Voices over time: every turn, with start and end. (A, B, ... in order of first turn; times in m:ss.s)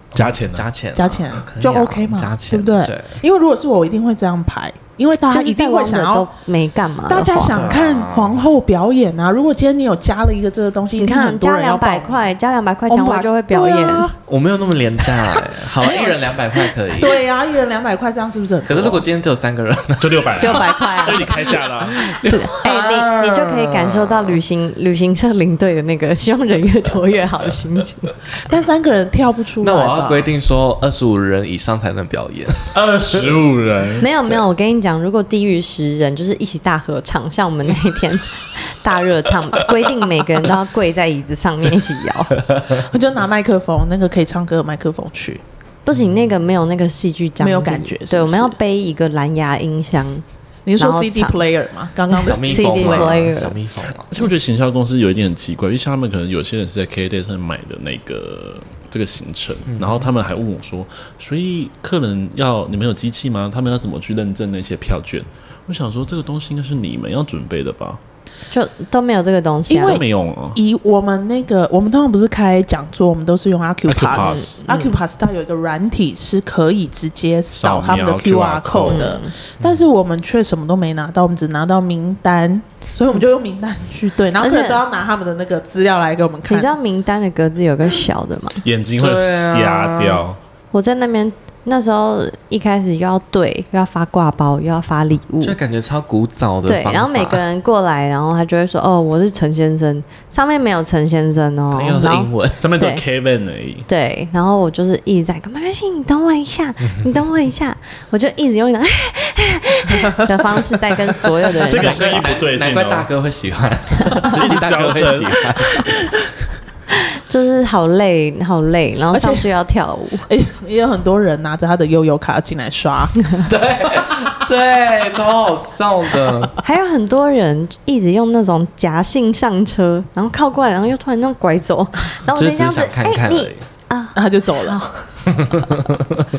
0:00.1-0:03.2 A
0:00.1-0:00.7 B
0:00.9-0:06.3 C
0:05.3-0:07.7 D
0:07.1-0:12.2 C
0:07.5-0:08.4 A
0:11.0-0:14.1 D
0:12.9-0:14.2 C
0:14.2-0:17.2 A
0:15.1-0:16.2 C
0:16.9-0:19.0 C
0:18.6-0:24.4 A
0:20.0-0:22.0 B
0:20.4-0:21.4 D
0:22.2-0:28.1 D
0:28.4-0:30.3 C
0:29.6-0:33.4 A
0:32.7-0:34.0 B
0:34.0-0:42.4 D
0:42.7-0:45.4 C
0:45.8-0:50.2 D
0:47.4-0:48.6 C
0:50.6-0:53.1 C
0:50.8-0:51.4 D
0:52.1-0:53.6 D
0:52.2-0:54.3 A
0:54.1-1:08.0 B
0:59.7-1:00.1 A
1:08.5-1:10.0 D
1:09.7-1:10.0 C
1:09.8-1:10.6 B
1:10.5-1:26.7 C
1:13.8-1:14.6 B
1:14.2-1:15.0 D
1:17.5-1:19.1 B
1:18.8-1:19.3 D
1:24.4-1:24.8 D
1:26.5-1:28.6 D
1:28.6-1:30.4 B
1:29.0-1:30.2 A
1:30.7-1:35.6 D
1:35.4-1:37.4 A
1:36.6-1:43.0 D
1:41.7-1:42.6 A
1:42.6-1:43.9 B
1:43.9-1:52.3 D
1:51.6-1:53.1 B
1:51.6-1:55.9 A
1:54.2-1:55.9 B
1:57.2-2:00.3 D
1:59.1-1:59.5 C
2:00.3-2:03.3 C
2:03.4-2:06.5 A
2:06.6-2:14.9 D
2:12.2-2:13.6 A
2:14.1-2:14.8 C
2:15.3-2:16.2 A